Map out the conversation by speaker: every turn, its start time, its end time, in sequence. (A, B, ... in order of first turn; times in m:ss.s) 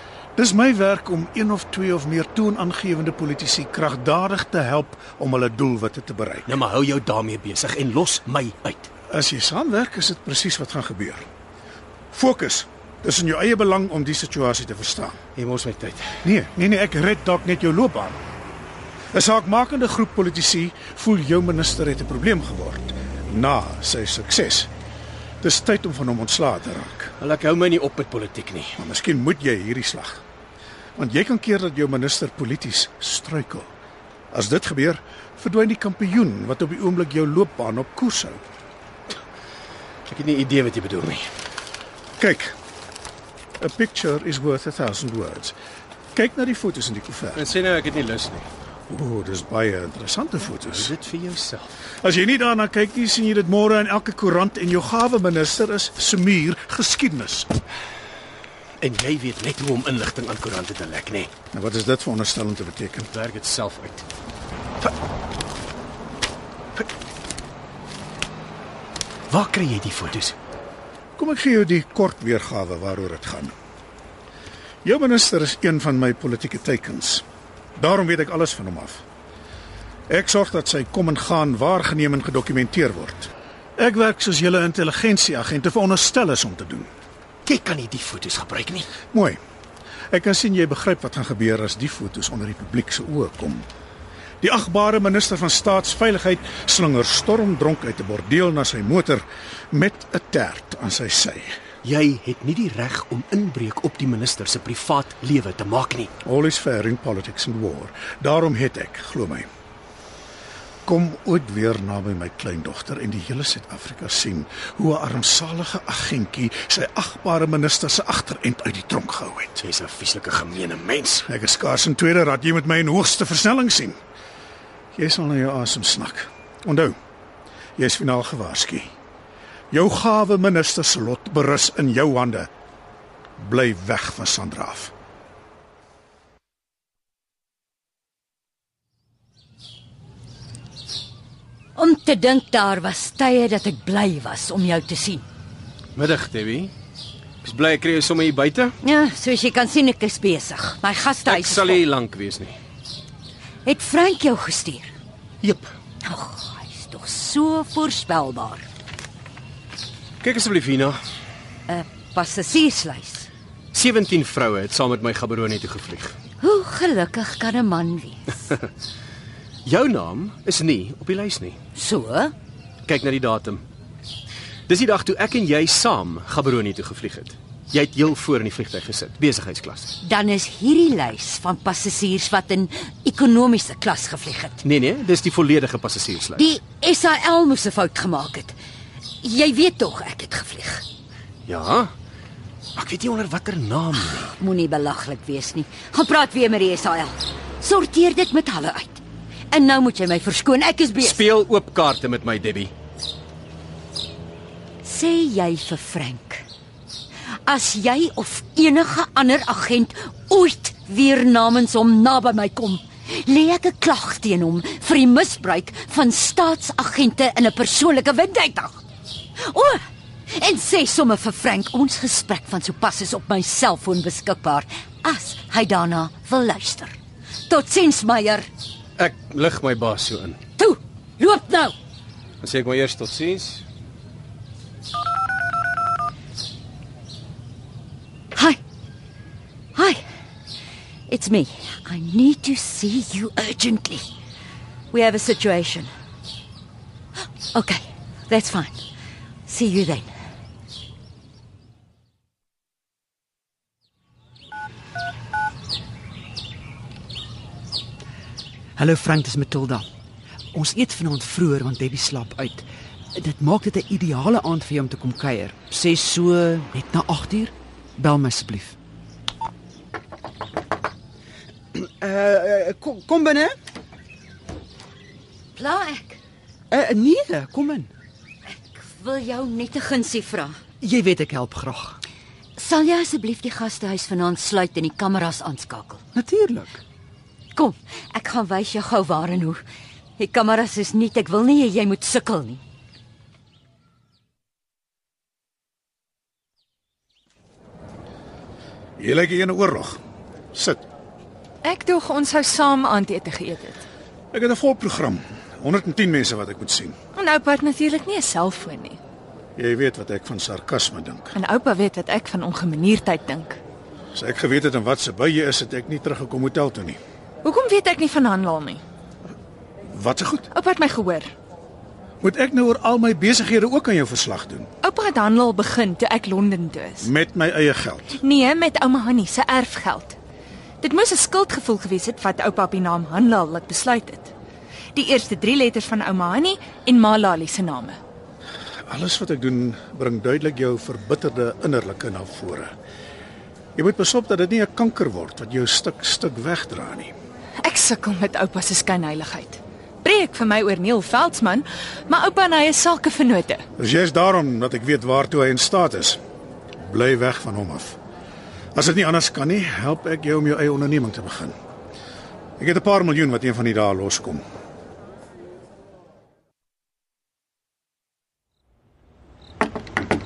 0:00.4-0:06.5 A
0:06.4-0:08.9 B
0:09.1-0:11.2 A
0:12.1-0:15.2 A
0:15.4-0:16.2 B
0:16.2-0:18.2 A
0:19.1-0:24.7 A
0:25.4-0:27.1 A
0:27.2-0:28.8 B
0:28.8-0:30.2 A
0:31.0-0:33.7 A
0:34.3-0:38.4 A
0:40.0-0:41.3 B
0:42.2-0:42.5 A
0:43.6-0:45.5 A
0:46.1-0:47.4 A
0:47.3-0:48.5 B
0:48.9-0:50.9 A
0:50.5-0:51.7 B
0:52.0-0:57.5 A
0:58.8-1:01.3 B
1:01.5-1:03.1 A
1:03.1-1:04.0 B
1:09.3-1:10.3 B
1:11.2-1:13.5 A
1:14.8-1:17.2 A
1:17.8-1:19.0 A
1:20.1-1:26.9 A
1:27.4-1:28.9 B
1:29.1-1:29.4 A
1:30.1-1:33.7 A
1:34.4-1:41.6 A
1:41.8-1:46.1 B
1:46.2-1:49.5 A
1:50.8-1:59.6 A
1:59.6-2:01.3 B
2:01.3-2:04.0 A
2:04.9-2:06.9 A
2:07.8-2:08.9 A
2:09.7-2:12.5 A
2:13.4-2:14.9 A
2:21.7-2:25.2 C
2:25.9-2:26.7 B
2:27.4-2:28.7 B
2:28.8-2:31.8 C
2:31.2-2:32.6 B
2:33.6-2:34.9 C
2:35.4-2:35.7 B
2:36.0-2:38.6 C
2:40.2-2:41.0 B
2:41.7-2:43.3 C
2:43.7-2:46.2 B
2:46.4-2:48.5 C
2:49.6-2:51.6 B
2:51.7-2:52.3 C
2:52.8-2:53.6 B
2:54.7-2:59.9 B
3:00.0-3:04.6 C
3:04.6-3:06.4 B
3:06.4-3:08.6 C
3:09.2-3:10.8 C
3:11.4-3:11.9 B
3:12.8-3:14.3 B
3:14.3-3:21.2 C
3:21.0-3:22.7 B
3:24.8-3:26.4 C
3:27.4-3:38.8 C
3:39.4-3:47.0 C
3:47.5-3:48.5 C
3:49.0-3:50.4 B
3:50.6-3:51.7 C
3:52.4-3:53.6 B
3:58.3-3:58.6 C
3:59.7-4:00.0 C
4:01.1-4:04.1 C
4:04.9-4:05.9 C
4:07.5-4:08.8 C
4:09.4-4:10.1 C
4:18.8-4:19.8 D
4:20.5-4:28.8 D
4:31.7-4:33.6 D
4:35.5-4:36.2 C
4:36.7-4:37.9 D
4:38.5-4:40.6 C
4:40.8-4:42.0 D
4:42.6-4:46.0 C
4:46.1-4:46.8 D
4:47.5-4:49.6 C
4:50.2-4:52.6 C
4:59.0-5:00.0 A
5:00.5-5:00.8 A
5:01.6-5:03.8 E
5:04.3-5:06.9 A
5:07.1-5:09.0 E
5:09.6-5:11.3 A
5:11.3-5:13.6 E
5:14.1-5:17.0 A
5:17.4-5:18.8 E
5:19.9-5:20.5 A
5:20.5-5:21.3 E
5:22.2-5:24.7 A
5:24.8-5:27.1 E
5:27.0-5:28.2 A
5:28.2-5:30.2 E
5:30.8-5:34.3 E
5:34.9-5:38.0 E
5:38.9-5:42.7 A
5:43.8-5:47.1 A
5:47.6-5:53.6 E
5:53.8-5:56.2 A
5:56.8-5:58.0 A
5:58.7-6:01.5 A
6:02.6-6:04.4 A